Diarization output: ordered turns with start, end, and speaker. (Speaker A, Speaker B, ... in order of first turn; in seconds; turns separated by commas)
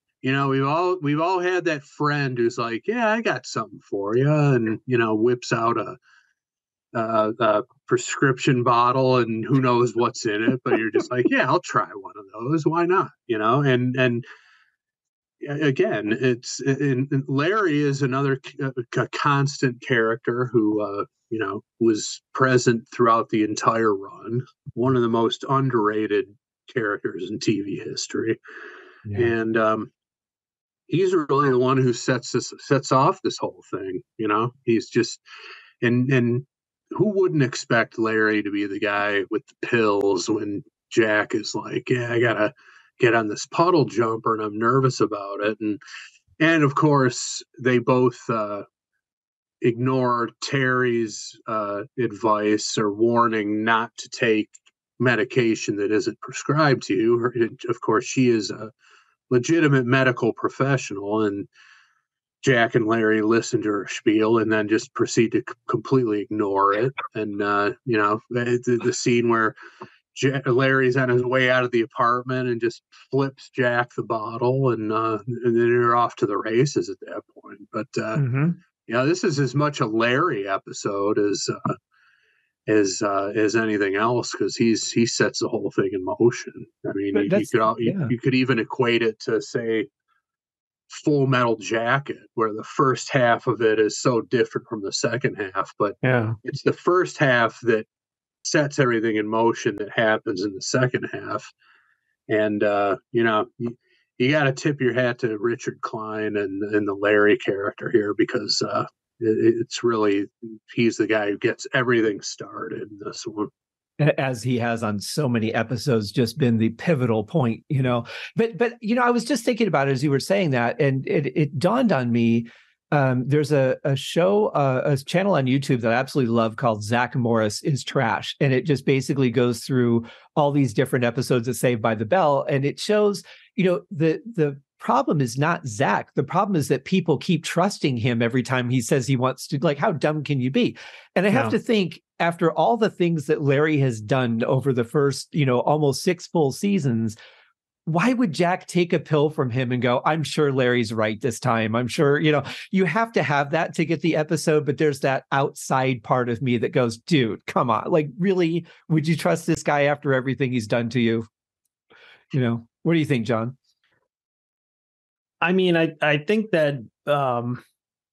Speaker A: 0.2-6.0, Speaker A: 6.9-14.2, Speaker A: 15.4-28.4, Speaker A: 29.1-29.9, Speaker A: 30.9-35.2, Speaker A: 35.8-45.8, Speaker A: 46.4-48.7, Speaker A: 49.6-58.7, Speaker A: 59.3-61.5, Speaker A: 62.4-69.6, Speaker A: 70.1-78.2, Speaker B: 78.2-78.6, Speaker A: 78.9-81.8, Speaker A: 82.7-89.9, Speaker C: 87.1-88.1, Speaker A: 90.9-97.9, Speaker B: 96.0-96.4, Speaker A: 98.4-101.5, Speaker A: 102.3-113.5, Speaker C: 114.0-147.2, Speaker C: 147.9-161.3, Speaker C: 162.3-163.6, Speaker B: 165.4-167.6